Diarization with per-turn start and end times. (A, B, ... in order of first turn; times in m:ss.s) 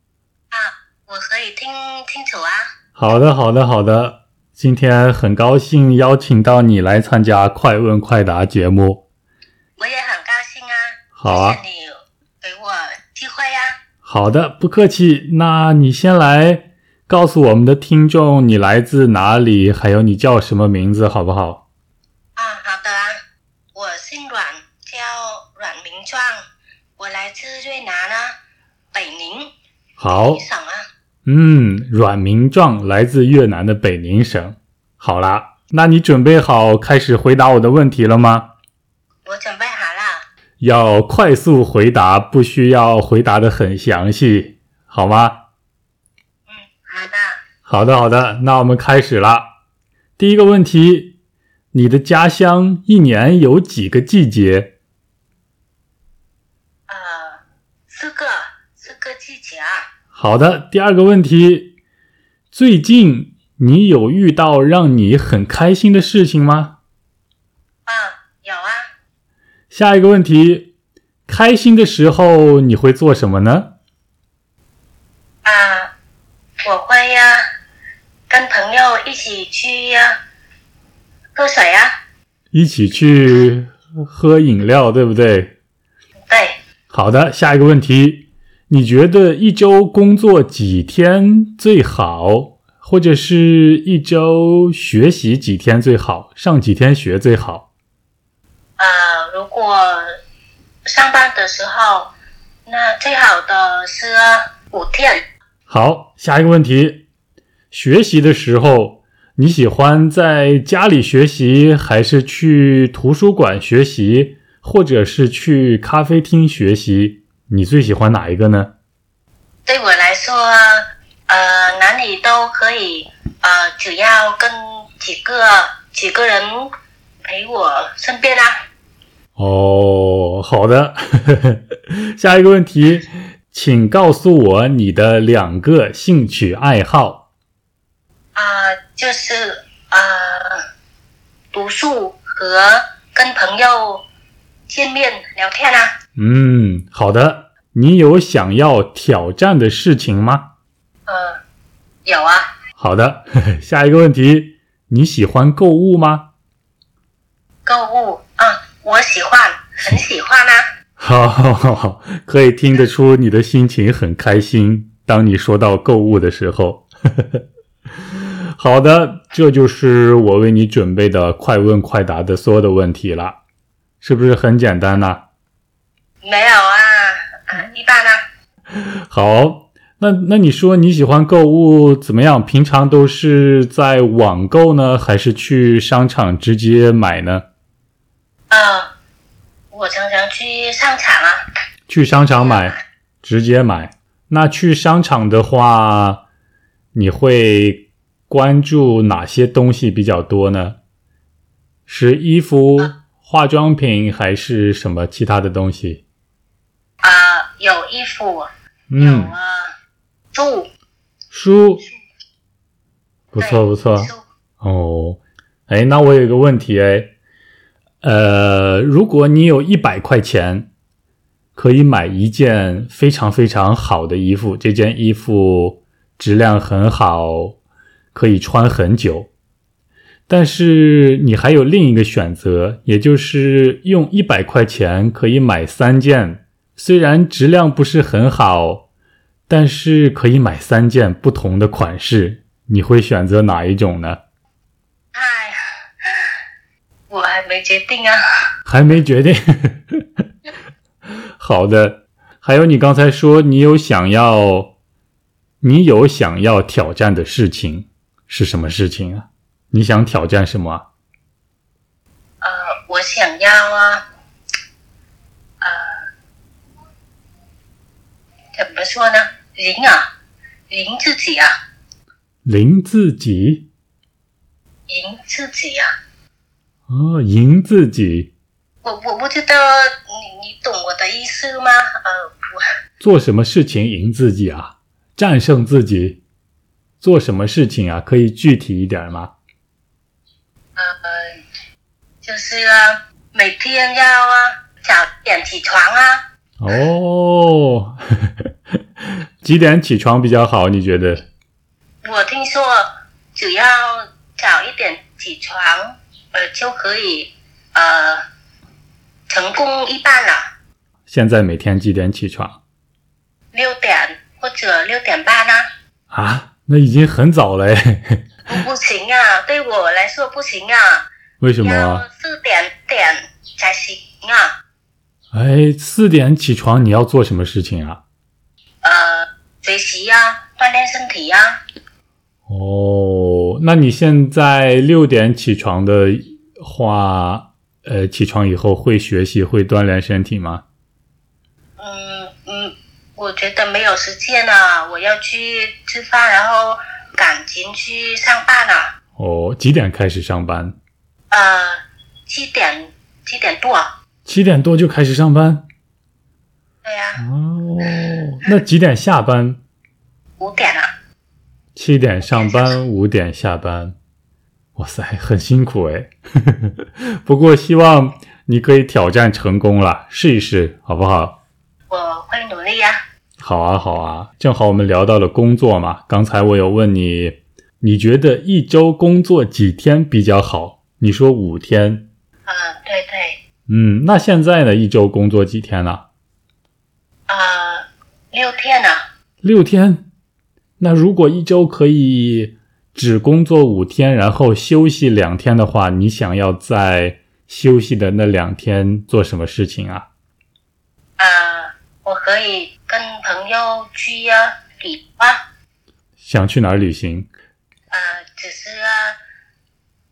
0:00.5-0:02.7 A
0:03.0-0:09.0 B
0:09.8-0:13.8 A
0:11.2-0:11.6 B
0:14.0-0:21.6 B
0:22.4-0:23.2 A
0:23.7-0:26.4 A
0:27.0-0:28.4 A
0:28.9-0:29.5 A
0:30.0-0:30.4 B
0:30.1-0:30.8 A
0:31.2-0:38.5 B
0:39.2-0:40.2 A
0:40.6-0:45.4 B
0:46.5-0:47.4 A
0:47.6-0:49.4 B
0:50.2-0:51.2 B
0:51.7-0:54.7 B
0:56.9-0:59.9 A
1:00.1-1:01.7 B
1:02.5-1:06.8 B
1:07.8-1:08.8 A
1:09.7-1:10.7 B
1:11.3-1:13.7 B
1:15.4-1:15.9 A
1:16.6-1:17.4 A
1:18.3-1:20.2 A
1:21.3-1:21.9 A
1:22.5-1:25.6 B
1:26.3-1:26.6 A
1:26.9-1:37.7 B
1:38.8-1:40.1 A
1:40.9-1:42.1 A
1:42.7-1:45.2 A
1:45.7-1:47.0 B
1:47.7-1:58.7 B
1:59.6-2:06.7 A
2:07.2-2:08.5 A
2:09.4-2:17.2 B
2:18.4-2:20.6 A
2:21.5-2:24.0 A
2:24.7-2:25.9 A
2:26.2-2:30.5 B
2:31.1-2:31.4 A
2:32.0-2:32.5 A
2:32.8-2:36.3 B
2:37.6-2:40.6 A
2:41.0-2:47.4 B
2:48.1-2:53.4 B
2:54.0-2:55.2 B
2:56.2-2:58.2 A
2:58.7-3:07.4 B
3:08.5-3:08.9 A
3:09.7-3:11.4 A
3:11.9-3:16.2 B
3:12.2-3:12.8 A
3:16.9-3:20.8 B
3:21.9-3:26.0 B
3:27.0-3:29.7 A
3:28.9-3:29.3 B
3:30.3-3:30.7 A
3:31.3-3:31.8 B
3:33.3-3:37.1 B
3:33.4-3:34.2 A
3:38.0-3:40.7 B
3:41.6-3:47.6 B
3:48.1-3:49.3 B
3:50.3-3:58.9 B
3:59.5-4:04.2 B
4:05.1-4:06.3 A
4:07.1-4:08.2 A
4:08.6-4:10.0 B
4:11.4-4:14.7 B
4:15.6-4:20.8 B
4:22.4-4:24.0 A
4:25.6-4:26.1 A
4:28.5-4:30.1 A
4:30.7-4:31.5 A
4:32.4-4:33.7 B
4:34.9-4:35.9 A
4:36.9-4:38.3 B
4:38.8-4:42.6 A
4:43.0-4:46.2 B
4:47.0-4:49.3 B
4:50.8-4:51.4 A
4:52.2-4:56.2 A
4:56.6-4:58.5 B
4:59.0-5:01.3 B
5:02.0-5:08.2 A
5:09.3-5:10.5 A
5:11.1-5:12.6 B
5:13.5-5:15.7 A
5:16.1-5:18.3 B
5:18.5-5:21.1 A
5:21.4-5:22.0 B
5:21.6-5:24.6 A
5:25.3-5:28.0 B
5:28.8-5:31.6 A
5:32.5-5:40.6 B
5:41.8-5:48.9 A
5:49.2-5:50.8 B
5:51.3-5:53.9 A
5:54.2-5:55.6 B
5:56.8-5:57.2 A
5:57.2-5:59.6 B
6:00.4-6:00.9 A
6:01.8-6:04.0 B
6:02.2-6:02.8 A
6:04.8-6:11.4 B
6:11.9-6:13.0 A
6:13.4-6:22.1 B
6:22.5-6:23.4 A
6:23.7-6:26.0 B
6:27.3-6:29.0 A
6:29.4-6:30.1 B
6:30.8-6:40.1 B
6:41.2-6:45.4 A
6:46.2-6:47.3 B
6:47.9-6:49.2 A